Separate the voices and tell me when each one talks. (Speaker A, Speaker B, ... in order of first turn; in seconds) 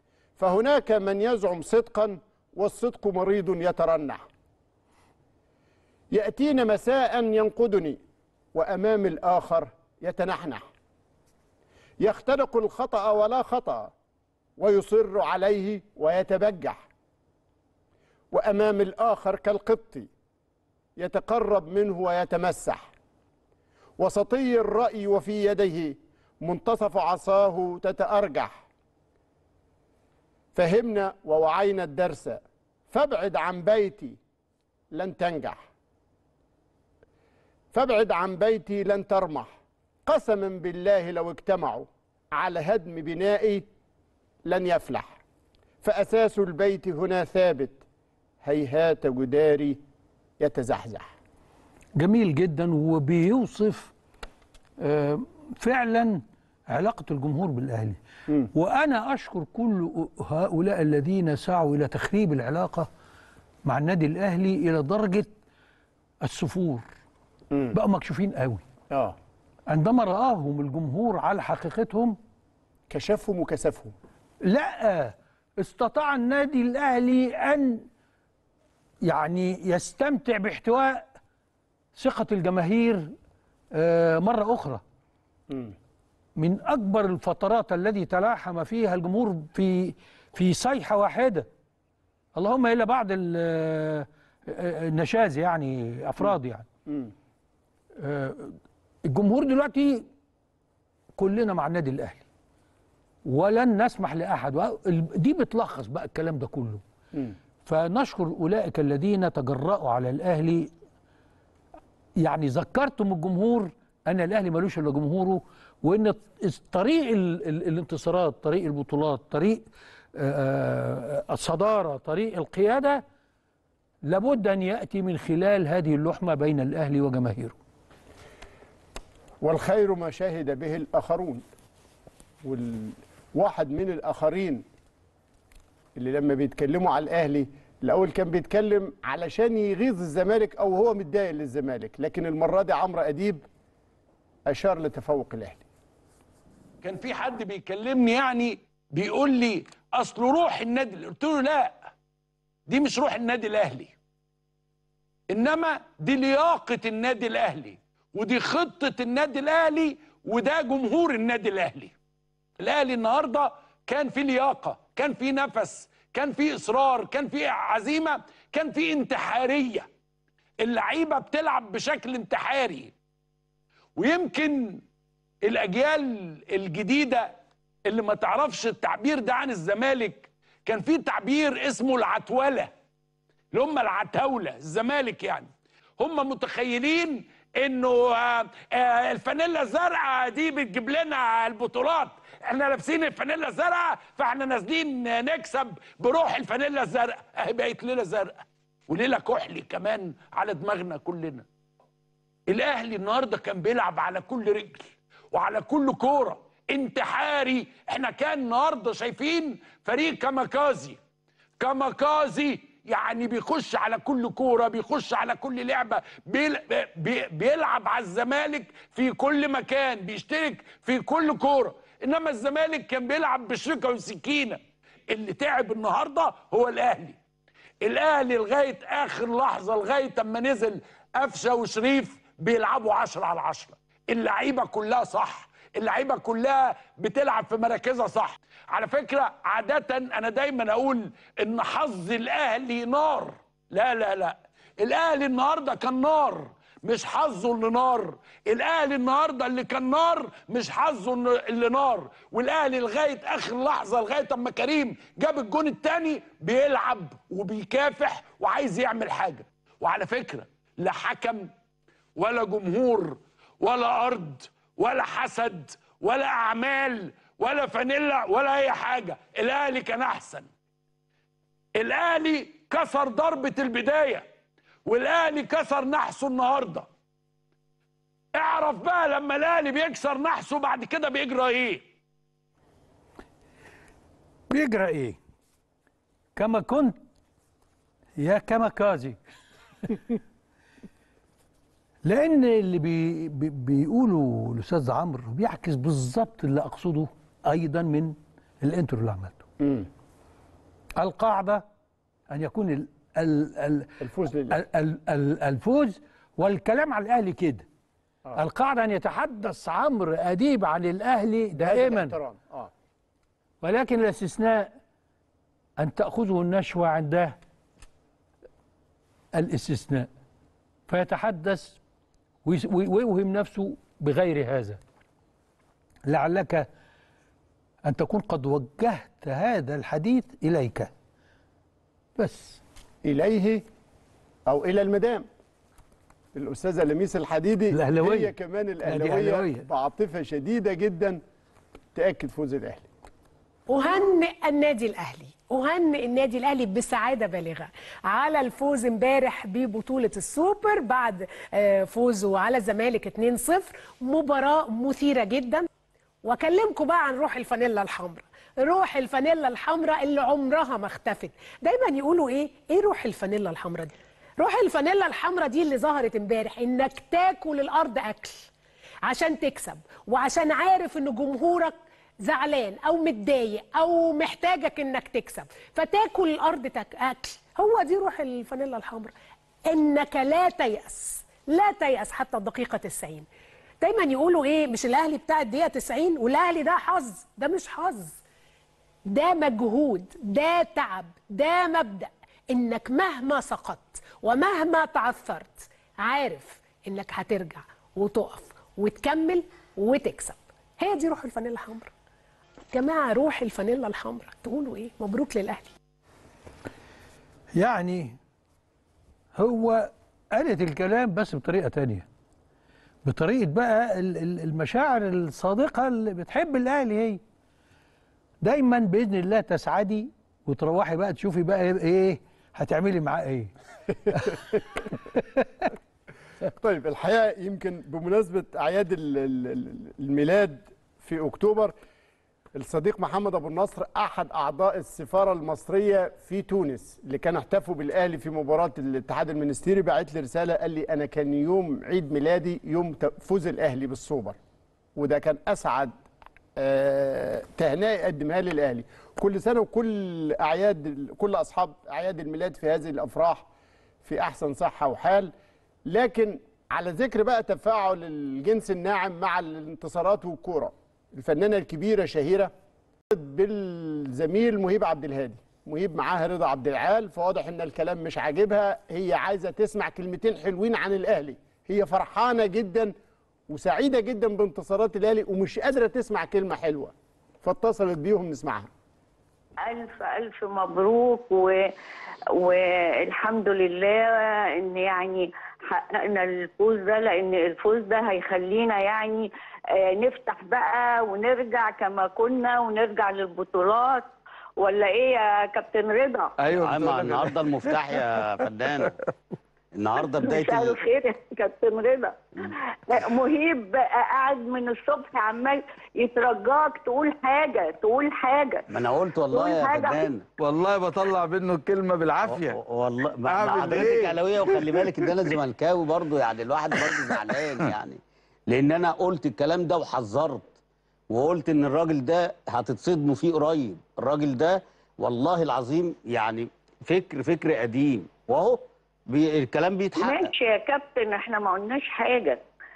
Speaker A: 0.4-4.2, 6.1-8.0, 8.5-10.6, 12.0-13.9, 14.6-16.8, 18.3-20.1, 21.0-22.9, 24.0-28.7, 30.5-34.2, 34.9-35.6, 37.7-39.5, 40.0-43.6, 44.4-45.2, 45.8-47.8, 48.4-49.8, 50.4-51.1, 68.9-69.2, 72.9-73.9, 85.5-85.7, 96.9-97.1, 129.4-131.4, 132.4-134.6, 136.0-143.4, 144.5-145.6, 299.6-299.9, 304.0-304.6, 311.5-312.7, 333.0-333.6, 334.5-335.2, 336.3-341.2, 341.9-342.9, 424.1-424.8, 426.6-431.7, 432.5-444.4, 444.9-445.9, 446.6-453.5, 454.0-455.3, 455.9-462.5, 463.1-472.9, 473.5-478.7
Speaker B: 52.0-53.9, 54.8-58.0, 58.5-62.9, 63.6-65.3, 66.2-66.9, 67.7-68.6, 69.7-72.2, 74.4-77.8, 79.0-81.0, 82.0-83.1, 83.7-84.8, 86.4-91.5, 92.4-96.7, 98.0-100.0, 101.2-102.2, 103.2-106.8, 107.6-110.7, 112.2-119.6, 120.2-123.0, 124.0-127.5, 284.5-285.2, 286.4-287.0, 288.2-289.2, 292.0-299.4, 301.0-301.6, 302.3-303.9, 304.5-307.6, 308.4-312.1, 313.6-314.7, 315.8-317.3, 319.3-320.1, 320.9-321.8, 322.4-324.8, 326.1-326.7, 327.8-330.9, 332.2-332.6, 337.7-338.3, 338.8-339.6, 407.6-408.2, 409.4-412.1, 413.1-417.2, 418.4-423.5, 424.1-424.4, 425.1-425.6
Speaker C: 146.8-151.9, 152.7-153.9, 155.3-161.9, 162.6-169.9, 170.6-172.9, 174.0-174.8, 175.4-177.3, 177.8-182.7, 183.5-201.4, 202.5-211.0, 211.6-224.6, 225.1-227.2, 227.8-261.5, 262.1-270.5, 271.8-274.2, 274.9-276.9, 278.4-281.9
Speaker D: 343.7-355.6, 356.2-368.5, 369.1-379.1, 379.7-383.2, 383.8-388.2, 389.1-401.9, 402.7-405.7
Speaker E: 479.7-481.7, 482.3-496.3, 500.1-508.6, 509.3-510.1, 530.0-532.4
Speaker F: 496.4-497.8, 510.4-512.6, 513.2-515.1, 516.8-517.1
Speaker G: 496.6-498.9, 499.8-500.8, 508.7-510.2, 512.3-518.0, 518.5-520.6, 521.1-530.3